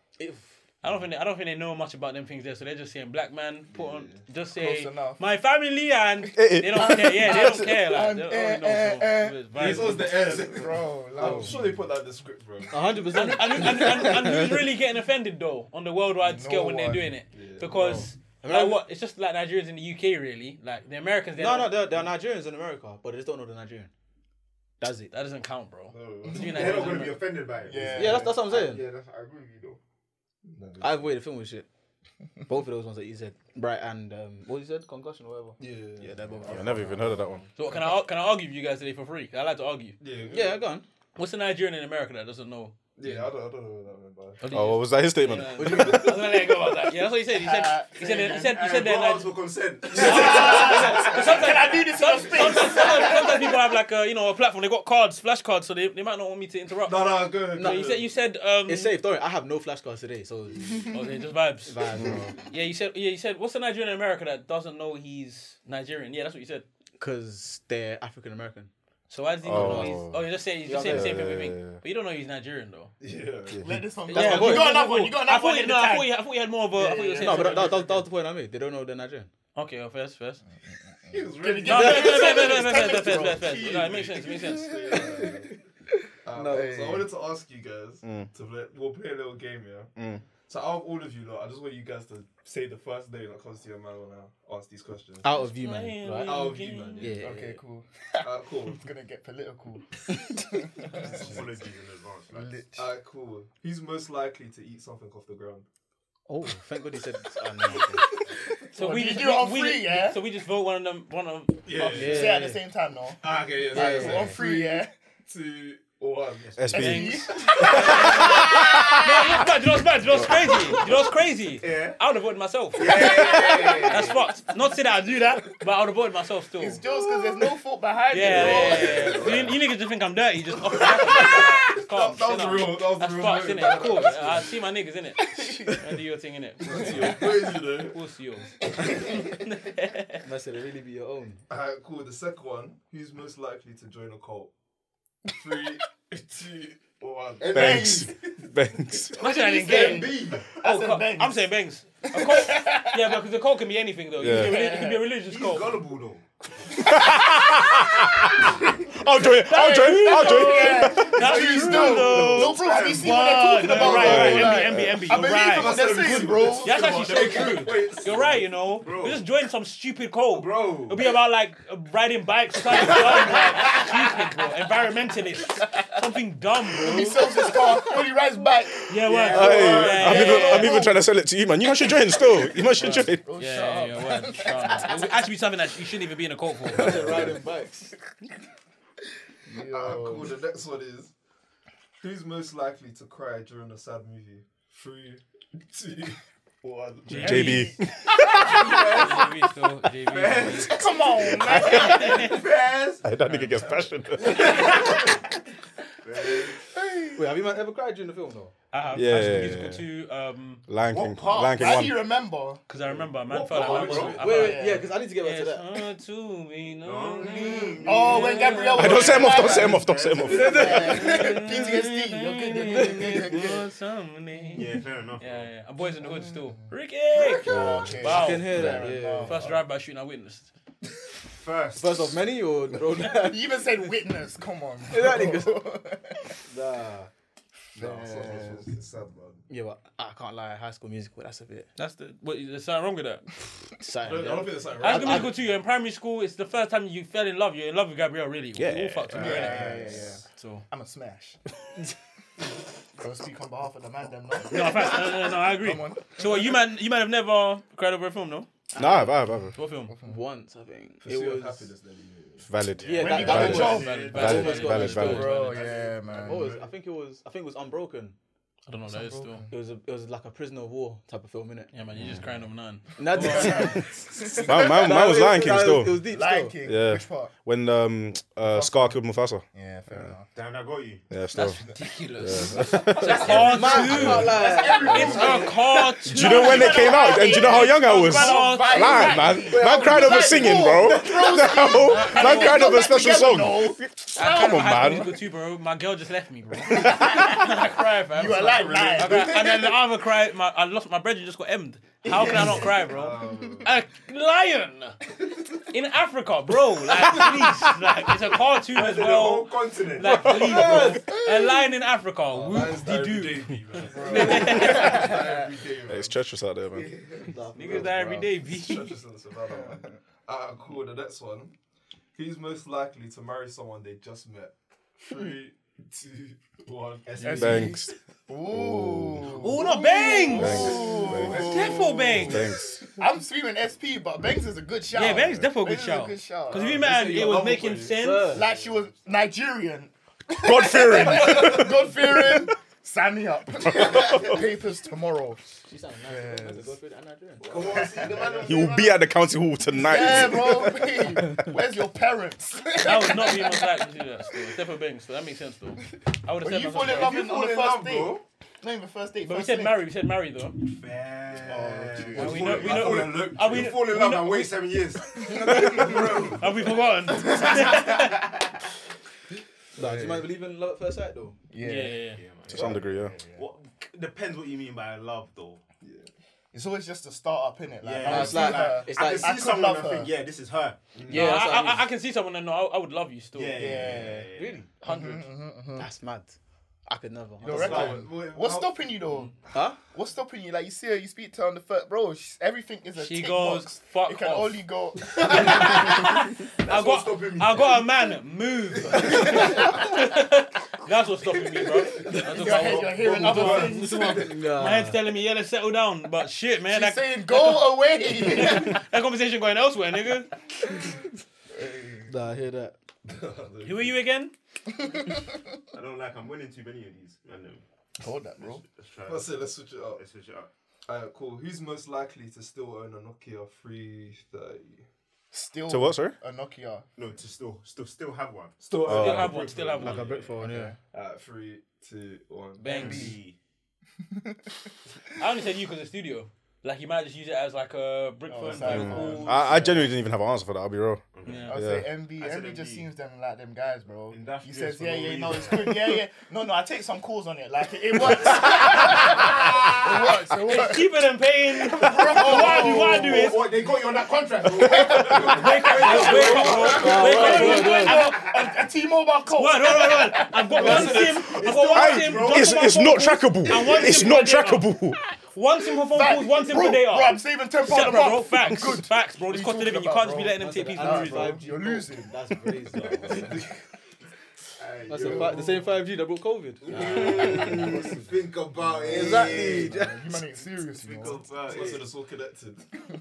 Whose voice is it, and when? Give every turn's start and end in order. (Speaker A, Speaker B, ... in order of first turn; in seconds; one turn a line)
Speaker A: 0.2-0.6
Speaker B: 0.8-10.2
Speaker C: 3.7-4.3
Speaker D: 4.5-5.2
Speaker E: 6.3-7.7
Speaker D: 6.8-11.8
Speaker C: 9.5-13.8
Speaker A: 11.2-11.7
Speaker A: 12.7-14.5
Speaker B: 13.1-21.8
Speaker D: 16.2-17.1
Speaker C: 17.3-18.0
Speaker A: 17.7-18.8
Speaker A: 21.4-23.9
Speaker A: 24.8-25.1
Speaker B: 25.1-27.3
Speaker C: 25.9-27.1
Speaker F: 26.4-29.8
Speaker D: 27.6-28.4
Speaker C: 27.7-28.3
Speaker A: 27.9-28.8
Speaker C: 30.4-31.2
Speaker A: 30.8-31.7
Speaker A: 32.5-36.9
Speaker C: 35.6-37.4
Speaker E: 36.5-37.5
Speaker B: 37.6-40.0
Speaker C: 40.0-40.7
Speaker A: 40.3-40.9
Speaker B: 41.2-42.7
Speaker C: 43.0-44.5
Speaker A: 43.0-43.3
Speaker B: 44.4-49.4
Speaker E: 44.5-46.1
Speaker A: 45.6-46.2
Speaker D: 47.3-48.6
Speaker F: 48.5-51.5
Speaker D: 49.9-53.6
Speaker B: 49.9-59.0
Speaker C: 50.7-51.7
Speaker C: 56.8-58.1
Speaker A: 57.5-57.9
Speaker A: 58.7-60.9
Speaker B: 60.9-61.9
Speaker A: 61.7-62.3
Speaker B: 62.5-66.7
Speaker A: 67.0-68.7
Speaker B: 69.1-72.9
Speaker E: 69.4-71.8
Speaker A: 69.5-70.0
Speaker A: 70.6-71.2
Speaker C: 73.0-73.7
Speaker D: 73.6-76.1
Speaker B: 74.1-78.0
Speaker A: 74.1-75.2
Speaker D: 76.7-77.6
Speaker A: 77.2-79.3
Speaker B: 79.5-80.4
Speaker D: 81.1-83.6
Speaker C: 81.1-85.6
Speaker B: 81.6-84.7
Speaker D: 84.5-85.3
Speaker C: 86.2-89.9
Speaker A: 86.3-86.9
Speaker D: 86.5-87.1
Speaker E: 88.0-88.3
Speaker E: 90.0-90.2
Speaker C: 90.5-95.5
Speaker A: 95.2-96.5
Speaker B: 95.4-97.2
Speaker C: 96.2-97.2
Speaker A: 97.0-97.6
Speaker D: 97.2-101.4
Speaker C: 98.2-98.8
Speaker F: 100.9-102.7
Speaker D: 102.3-102.8
Speaker C: 102.8-105.7
Speaker A: 106.3-108.1
Speaker D: 108.5-110.2
Speaker B: 108.8-111.6
Speaker C: 111.7-112.5
Speaker A: 111.9-112.6
Speaker D: 111.9-113.2
Speaker C: 113.2-118.5
Speaker D: 113.7-114.9
Speaker A: 113.7-114.3
Speaker E: 116.6-117.3
Speaker D: 116.7-119.1
Speaker B: 116.8-126.8
Speaker E: 118.5-119.2
Speaker F: 121.6-122.0
Speaker F: 122.8-124.3
Speaker D: 126.6-129.4
Speaker B: 128.1-137.2
Speaker C: 128.2-129.6
Speaker C: 130.6-134.6
Speaker D: 135.4-135.8
Speaker C: 136.6-138.0
Speaker D: 136.7-137.1
Speaker B: 137.8-140.2
Speaker D: 138.9-139.2
Speaker A: 140.2-141.4
Speaker C: 141.5-144.5
Speaker C: 145.3-148.2
Speaker F: 147.4-148.2
Speaker E: 147.5-149.1
Speaker D: 147.5-148.0
Speaker C: 149.1-150.4
Speaker B: 149.2-155.8
Speaker F: 149.5-150.5
Speaker D: 149.7-151.4
Speaker D: 152.1-153.1
Speaker E: 154.2-154.5
Speaker D: 154.2-155.0
Speaker F: 155.2-156.2
Speaker E: 156.8-162.4
Speaker B: 159.4-166.1
Speaker D: 159.4-167.5
Speaker F: 161.5-164.0
Speaker E: 163.7-165.0
Speaker C: 163.8-164.3
Speaker C: 165.1-168.6
Speaker B: 166.6-177.4
Speaker F: 168.8-169.2
Speaker F: 170.3-171.0
Speaker F: 172.7-173.8
Speaker D: 176.7-178.9
Speaker B: 178.9-180.9
Speaker F: 179.0-180.7
Speaker E: 179.3-183.3
Speaker D: 179.5-181.0
Speaker D: 182.8-185.2
Speaker B: 183.1-187.1
Speaker A: 186.7-187.9
Speaker C: 186.7-187.4
Speaker D: 189.5-190.3
Speaker C: 189.6-191.1
Speaker C: 192.0-197.5
Speaker B: 197.1-197.8
Speaker E: 197.1-198.1
Speaker D: 197.3-199.2
Speaker F: 198.4-199.3
Speaker B: 198.4-200.8
Speaker F: 200.1-203.5
Speaker D: 200.6-202.3
Speaker B: 201.5-202.4
Speaker E: 203.0-204.7
Speaker B: 203.2-203.6
Speaker F: 204.3-205.0
Speaker F: 206.0-206.6
Speaker D: 206.8-207.2
Speaker A: 207.2-208.5
Speaker B: 208.7-210.6
Speaker E: 208.9-209.8
Speaker E: 210.7-212.0
Speaker F: 210.9-211.9
Speaker D: 211.5-212.6
Speaker B: 212.7-219.1
Speaker F: 212.9-214.3
Speaker C: 213.3-214.4
Speaker A: 214.2-215.7
Speaker D: 214.2-214.9
Speaker F: 216.8-221.2
Speaker D: 217.8-223.7
Speaker E: 218.8-220.7
Speaker A: 220.3-221.2
Speaker B: 220.9-224.7
Speaker A: 222.7-223.1
Speaker F: 224.5-225.5
Speaker B: 225.2-230.5
Speaker D: 226.0-226.5
Speaker D: 227.2-229.6
Speaker E: 227.4-228.2
Speaker A: 228.0-229.5
Speaker F: 231.2-232.1
Speaker A: 231.8-233.5
Speaker D: 233.0-236.4
Speaker A: 234.9-235.6
Speaker A: 236.5-237.1
Speaker C: 237.8-239.4
Speaker D: 237.8-238.6
Speaker A: 239.5-241.7
Speaker B: 241.8-243.3
Speaker A: 243.8-245.3
Speaker C: 244.0-245.4
Speaker B: 244.8-249.7
Speaker E: 248.6-249.6
Speaker F: 249.2-249.9
Speaker D: 249.2-251.4
Speaker B: 250.3-250.7
Speaker D: 253.0-256.5
Speaker B: 254.5-258.5
Speaker E: 258.8-259.6
Speaker A: 258.8-259.1
Speaker B: 259.6-259.9
Speaker D: 259.9-260.2
Speaker A: 260.0-261.7
Speaker C: 261.0-262.6
Speaker E: 262.4-265.4
Speaker F: 262.8-266.6
Speaker A: 262.8-265.3
Speaker D: 263.0-264.1
Speaker B: 263.1-265.6
Speaker D: 264.8-266.5
Speaker C: 265.5-266.3
Speaker A: 266.2-268.2
Speaker B: 268.7-269.4
Speaker D: 268.9-269.5
Speaker A: 269.5-271.7
Speaker B: 271.7-273.8
Speaker A: 273.0-273.8
Speaker D: 273.1-274.8
Speaker E: 274.4-276.0
Speaker A: 274.4-276.6
Speaker D: 276.1-277.3
Speaker E: 276.6-279.4
Speaker D: 278.4-279.0
Speaker D: 279.5-280.3
Speaker F: 280.3-281.0
Speaker E: 281.1-281.6
Speaker B: 281.3-289.4
Speaker E: 282.2-284.4
Speaker D: 283.1-295.1
Speaker A: 283.3-285.5
Speaker E: 286.0-295.2
Speaker B: 291.8-292.9
Speaker B: 294.2-305.0
Speaker D: 296.7-297.6
Speaker E: 296.7-297.3
Speaker D: 298.1-299.6
Speaker C: 298.6-299.3
Speaker F: 302.0-302.8
Speaker C: 302.3-303.8
Speaker D: 303.2-303.7
Speaker B: 305.7-315.1
Speaker F: 308.7-310.8
Speaker A: 310.2-311.1
Speaker D: 311.1-311.6
Speaker C: 312.3-316.2
Speaker D: 313.8-315.4
Speaker E: 315.9-316.9
Speaker A: 317.2-318.3
Speaker B: 317.6-318.9
Speaker C: 318.4-321.6
Speaker D: 319.5-319.8
Speaker C: 322.1-327.8
Speaker F: 327.1-327.7
Speaker D: 327.2-336.9
Speaker E: 327.4-327.9
Speaker E: 328.5-329.5
Speaker B: 329.4-332.5
Speaker E: 330.3-331.5
Speaker C: 330.3-332.4
Speaker E: 332.1-332.8
Speaker B: 334.9-338.3
Speaker C: 336.5-338.5
Speaker A: 338.0-338.4
Speaker D: 338.3-345.4
Speaker F: 338.4-338.8
Speaker E: 340.3-342.5
Speaker F: 343.6-344.5
Speaker E: 343.9-344.3
Speaker A: 345.6-347.6
Speaker D: 346.1-346.7
Speaker C: 347.4-348.4
Speaker F: 347.4-349.0
Speaker D: 347.8-348.3
Speaker E: 348.4-351.5
Speaker D: 349.8-353.9
Speaker B: 352.8-357.1
Speaker D: 356.4-359.8
Speaker F: 356.8-358.2
Speaker B: 359.2-360.6
Speaker F: 360.6-368.5
Speaker D: 361.5-362.3
Speaker A: 362.1-362.7
Speaker C: 362.2-363.8
Speaker B: 362.2-364.6
Speaker D: 365.2-366.2
Speaker B: 366.3-368.3
Speaker A: 369.8-371.4
Speaker D: 371.5-372.1
Speaker B: 371.6-372.2
Speaker F: 372.1-375.6
Speaker E: 372.5-373.1
Speaker C: 375.8-376.1
Speaker D: 376.5-380.1
Speaker F: 377.8-380.9
Speaker A: 378.0-379.3
Speaker C: 380.9-381.5
Speaker A: 381.1-381.8
Speaker B: 381.1-383.8
Speaker F: 383.3-384.7
Speaker D: 383.6-384.3
Speaker A: 384.3-385.0
Speaker B: 384.8-385.2
Speaker D: 384.9-385.9
Speaker A: 385.8-386.4
Speaker A: 386.9-387.9
Speaker D: 387.4-389.3
Speaker C: 387.5-388.8
Speaker F: 387.6-388.3
Speaker A: 389.5-389.8
Speaker D: 389.9-396.0
Speaker B: 393.0-394.6
Speaker F: 395.1-397.9
Speaker B: 395.3-410.3
Speaker F: 399.0-399.6
Speaker D: 399.3-399.8
Speaker C: 402.0-403.9
Speaker D: 402.3-404.2
Speaker F: 403.0-403.7
Speaker A: 404.2-405.0
Speaker D: 406.6-408.8
Speaker D: 411.5-412.1
Speaker A: 412.1-412.8
Speaker C: 413.1-414.0
Speaker B: 413.6-414.3
Speaker D: 414.8-415.2
Speaker F: 415.7-417.6
Speaker D: 418.0-418.6
Speaker F: 418.4-420.5
Speaker C: 419.1-420.0
Speaker C: 420.9-424.9
Speaker D: 425.3-426.9
Speaker E: 425.7-426.2
Speaker F: 427.0-430.3
Speaker C: 428.6-430.0
Speaker E: 428.9-429.4
Speaker B: 428.9-430.1
Speaker A: 429.9-430.8
Speaker D: 430.4-430.8
Speaker C: 430.9-433.1
Speaker B: 432.6-433.2
Speaker F: 432.6-433.4
Speaker D: 432.7-433.2
Speaker D: 434.1-434.4
Speaker B: 435.2-439.7
Speaker D: 438.3-439.9
Speaker E: 438.6-441.0
Speaker F: 438.7-439.1
Speaker F: 441.1-441.6
Speaker B: 441.2-441.6
Speaker D: 441.5-451.0
Speaker E: 441.5-441.9
Speaker F: 442.1-442.9
Speaker F: 444.1-446.0
Speaker F: 448.3-450.1
Speaker B: 450.5-453.4
Speaker D: 451.6-453.5
Speaker F: 451.8-458.6
Speaker D: 454.4-461.1
Speaker B: 455.2-458.2
Speaker C: 455.3-456.9
Speaker A: 456.7-458.1
Speaker B: 459.3-464.7
Speaker F: 460.6-462.7
Speaker C: 460.6-461.1
Speaker E: 461.6-465.0
Speaker B: 465.4-471.4
Speaker D: 465.9-472.2
Speaker A: 470.4-473.4
Speaker C: 473.1-473.6
Speaker F: 474.6-475.6
Speaker A: 474.9-478.1
Speaker C: 475.0-475.7
Speaker F: 476.6-479.9
Speaker A: 478.9-479.9
Speaker D: 478.9-481.3
Speaker F: 480.6-481.9
Speaker C: 481.4-482.7